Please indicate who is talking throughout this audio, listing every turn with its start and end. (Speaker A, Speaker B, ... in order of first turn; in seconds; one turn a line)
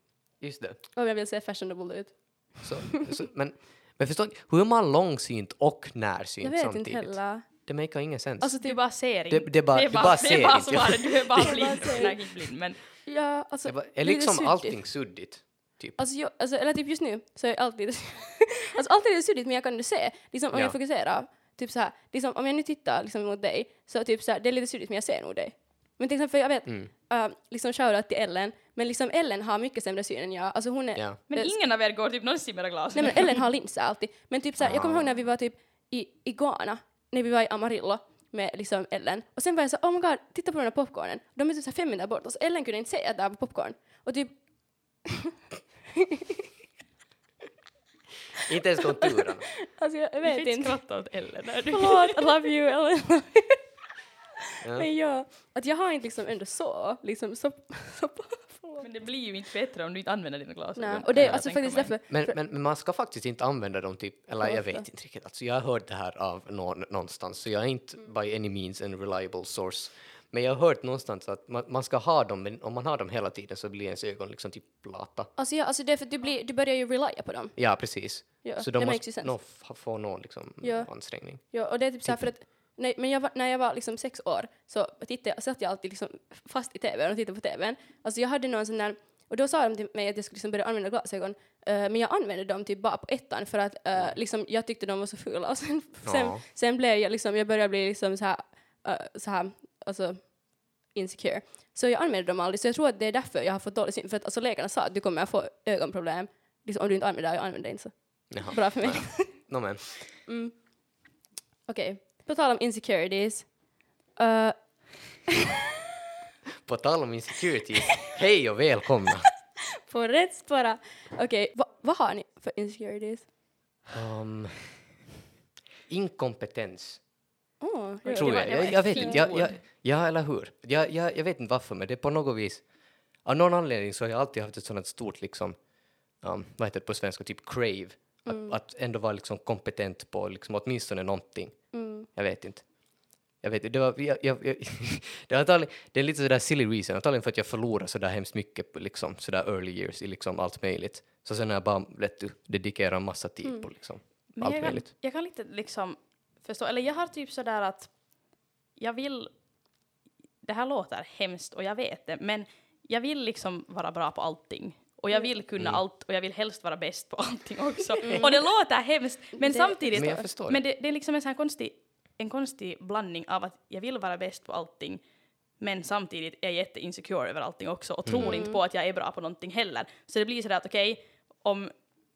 Speaker A: 0.4-0.8
Speaker B: 0.9-3.0
Speaker A: 2.6-11.6
Speaker B: 6.4-7.7
Speaker B: 8.4-8.8
Speaker C: 8.5-12.8
Speaker B: 11.5-12.3
Speaker B: 13.0-14.8
Speaker A: 13.7-16.0
Speaker B: 16.0-31.5
Speaker A: 26.6-26.9
Speaker C: 31.3-33.4
Speaker B: 33.0-45.2
Speaker A: 34.6-35.1
Speaker A: 48.5-49.5
Speaker B: 49.6-51.1
Speaker C: 50.2-52.3
Speaker B: 51.7-53.6
Speaker A: 54.6-54.9
Speaker B: 54.7-58.9
Speaker C: 58.8-61.9
Speaker B: 60.8-62.4
Speaker A: 61.2-75.3
Speaker B: 64.4-64.9
Speaker B: 75.4-79.4
Speaker A: 77.6-82.3
Speaker B: 80.6-109.7
Speaker A: 96.0-96.4
Speaker A: 108.3-110.2
Speaker B: 110.2-115.3
Speaker A: 116.6-119.3
Speaker B: 119.9-123.3
Speaker A: 123.9-125.0
Speaker A: 125.9-127.1
Speaker B: 127.6-129.5
Speaker C: 128.0-129.6
Speaker A: 128.2-154.9
Speaker B: 138.2-138.6
Speaker B: 141.7-142.1
Speaker C: 154.3-159.3
Speaker C: 160.4-175.0
Speaker B: 168.0-168.5
Speaker B: 169.4-170.0
Speaker A: 169.9-170.6
Speaker C: 175.6-181.7
Speaker A: 178.1-178.4
Speaker B: 178.2-178.6